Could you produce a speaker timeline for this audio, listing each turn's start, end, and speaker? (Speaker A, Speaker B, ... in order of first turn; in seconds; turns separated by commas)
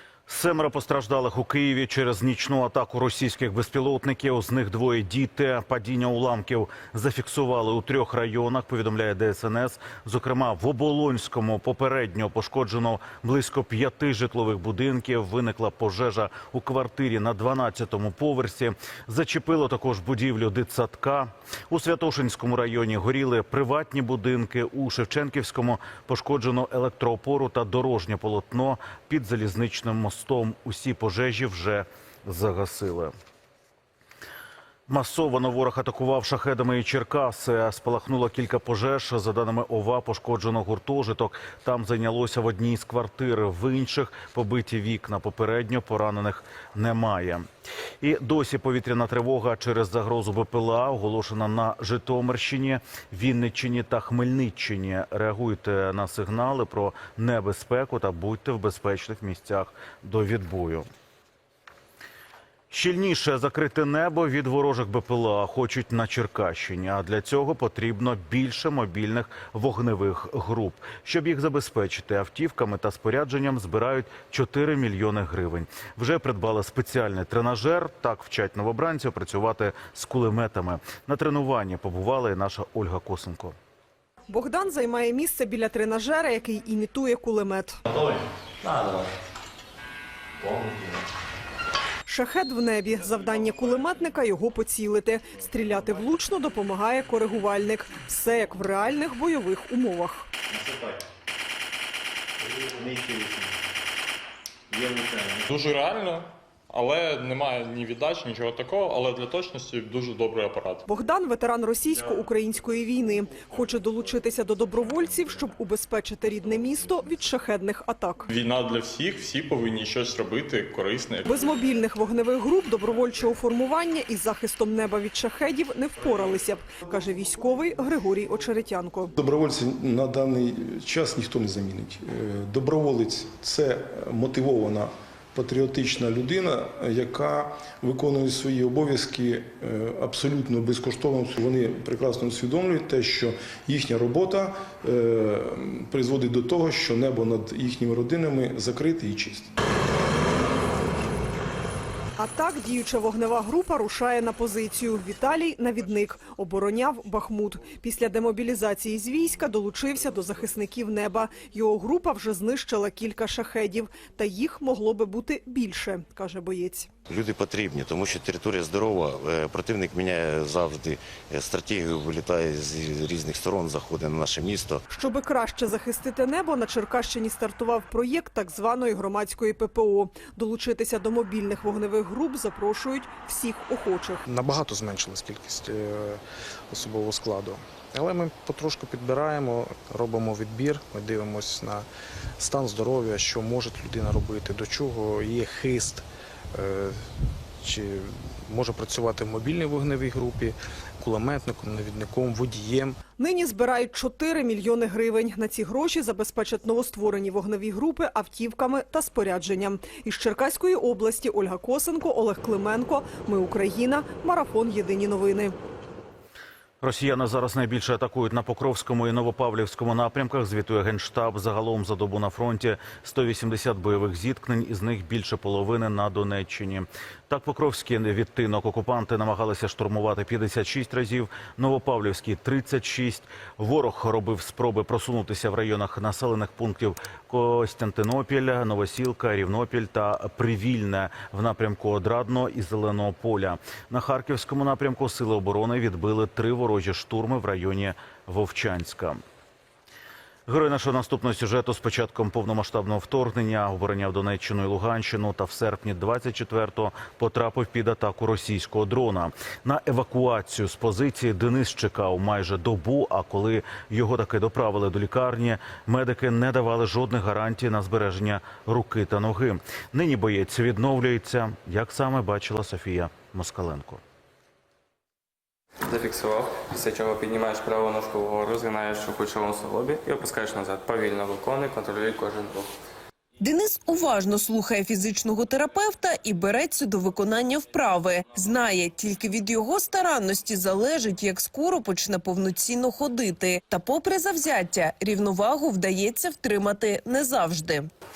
Speaker A: 0.3-33.1, Speaker A: 34.9-47.5, Speaker A: 48.0-60.9, Speaker A: 62.7-83.5, Speaker B: 84.3-87.8, Speaker B: 92.1-100.3, Speaker C: 105.5-110.8, Speaker B: 110.9-118.2, Speaker C: 118.3-121.3, Speaker B: 121.3-129.1, Speaker D: 129.2-149.5, Speaker B: 152.2-166.9, Speaker E: 167.1-174.8, Speaker B: 174.9-184.2, Speaker F: 184.3-191.9, Speaker F: 192.4-197.1, Speaker F: 197.6-203.0, Speaker B: 203.2-215.5, Speaker A: 216.8-249.2, Speaker A: 250.5-274.0, Speaker G: 275.9-282.7, Speaker H: 283.4-297.9